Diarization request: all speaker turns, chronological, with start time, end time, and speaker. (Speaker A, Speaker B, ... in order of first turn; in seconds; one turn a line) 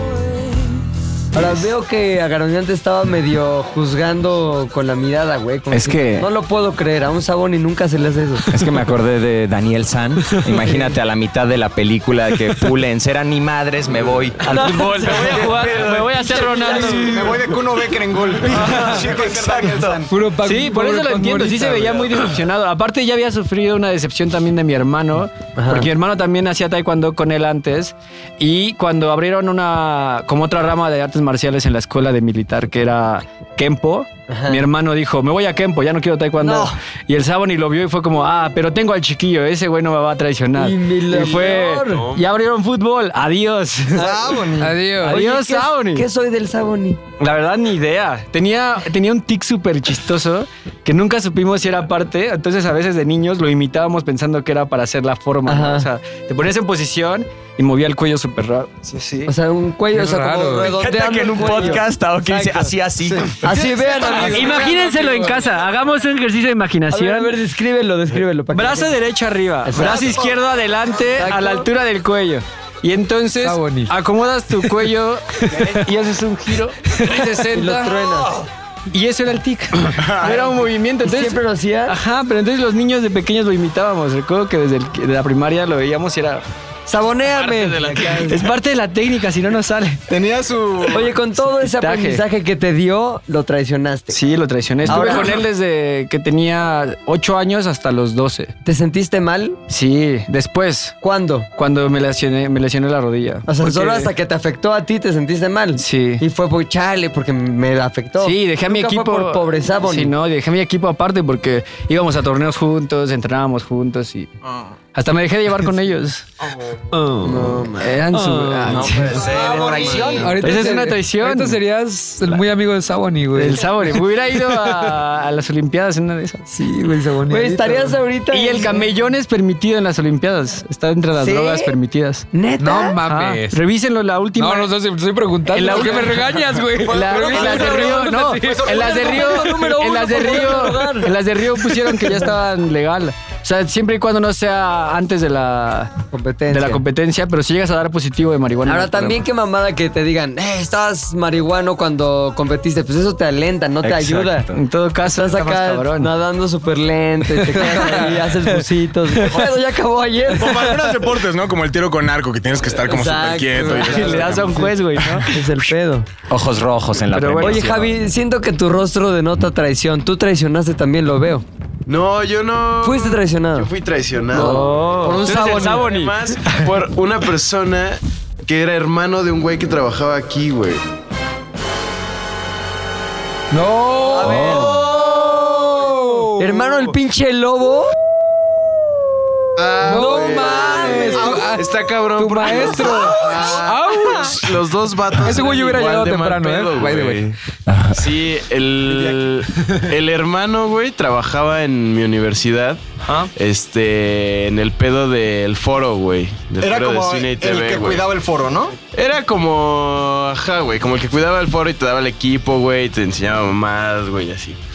Speaker A: 1.3-8.5
Speaker B: 5.7-6.3
Speaker B: 8.5-14.4
Speaker C: 14.4-17.4
Speaker A: 14.4-15.5
Speaker D: 14.5-16.5
Speaker E: 14.7-20.3
Speaker A: 16.3-17.2
Speaker F: 18.7-19.0
Speaker D: 18.9-20.0
Speaker F: 20.1-22.1
Speaker C: 20.4-44.2
Speaker A: 25.6-25.9
Speaker A: 34.3-34.6
Speaker A: 36.4-36.8
Speaker A: 40.6-42.1
Speaker D: 41.9-42.3
Speaker E: 44.0-44.8
Speaker F: 44.6-45.2
Speaker C: 44.9-46.1
Speaker A: 45.0-47.0
Speaker C: 47.2-59.3
Speaker A: 55.5-55.9
Speaker A: 59.3-62.7
Speaker F: 59.9-60.8
Speaker B: 60.6-63.5
Speaker E: 63.0-64.6
Speaker A: 63.4-64.7
Speaker F: 64.1-65.5
Speaker C: 64.3-67.4
Speaker A: 66.9-69.0
Speaker C: 68.5-78.0
Speaker A: 69.7-70.2
Speaker E: 69.7-70.4
Speaker A: 71.2-71.7
Speaker F: 73.4-73.9
Speaker A: 77.5-78.5
Speaker C: 78.9-86.5
Speaker G: 80.0-80.5
Speaker A: 81.0-82.0
Speaker A: 86.9-88.4
Speaker D: 87.3-88.5
Speaker C: 88.1-90.0
Speaker E: 90.1-91.1
Speaker A: 90.9-94.2
Speaker C: 91.4-92.2
Speaker C: 94.1-98.5
Speaker A: 94.8-95.5
Speaker A: 98.7-99.6
Speaker C: 99.7-101.0
Speaker A: 101.0-101.5
Speaker C: 101.6-104.1
Speaker A: 103.5-110.1
Speaker C: 105.8-106.2
Speaker C: 108.2-114.3
Speaker C: 114.9-116.3
Speaker E: 116.5-116.8
Speaker C: 116.9-121.6
Speaker A: 117.2-118.0
Speaker F: 118.1-118.9
Speaker A: 118.7-120.3
Speaker E: 118.8-120.5
Speaker D: 119.2-120.0
Speaker F: 120.2-123.7
Speaker C: 123.3-126.5
Speaker F: 124.5-124.9
Speaker A: 126.5-128.8
Speaker F: 126.7-127.9
Speaker C: 128.3-132.3
Speaker A: 131.2-131.7
Speaker A: 132.3-133.0
Speaker F: 132.6-133.6
Speaker C: 133.0-134.8
Speaker F: 134.4-138.8
Speaker C: 135.5-145.9
Speaker A: 135.7-136.0
Speaker E: 136.8-139.6
Speaker A: 137.3-137.8
Speaker A: 138.7-141.1
Speaker A: 146.1-146.8
Speaker C: 146.5-149.2
Speaker A: 148.7-154.5
Speaker B: 153.8-154.5
Speaker C: 154.5-156.1
Speaker A: 155.1-160.7
Speaker F: 157.4-158.2
Speaker C: 157.7-158.1
Speaker C: 159.2-159.5
Speaker G: 160.4-165.1
Speaker A: 162.8-166.1
Speaker C: 163.7-165.3
Speaker B: 166.3-167.9
Speaker C: 167.1-167.7
Speaker A: 167.4-171.4
Speaker D: 171.9-180.8
Speaker A: 172.8-173.7
Speaker A: 174.3-175.9
Speaker C: 174.3-176.7
Speaker F: 183.5-186.9
Speaker A: 184.1-185.4
Speaker A: 186.4-187.9
Speaker D: 189.6-197.4
Speaker F: 189.8-194.6
Speaker E: 189.8-191.6
Speaker A: 190.0-191.3
Speaker E: 193.1-193.9
Speaker F: 195.2-197.3
Speaker B: 197.7-198.0
Speaker D: 197.9-202.8
Speaker E: 198.9-199.2
Speaker D: 203.4-208.1
Speaker E: 206.6-208.8
Speaker D: 208.9-214.6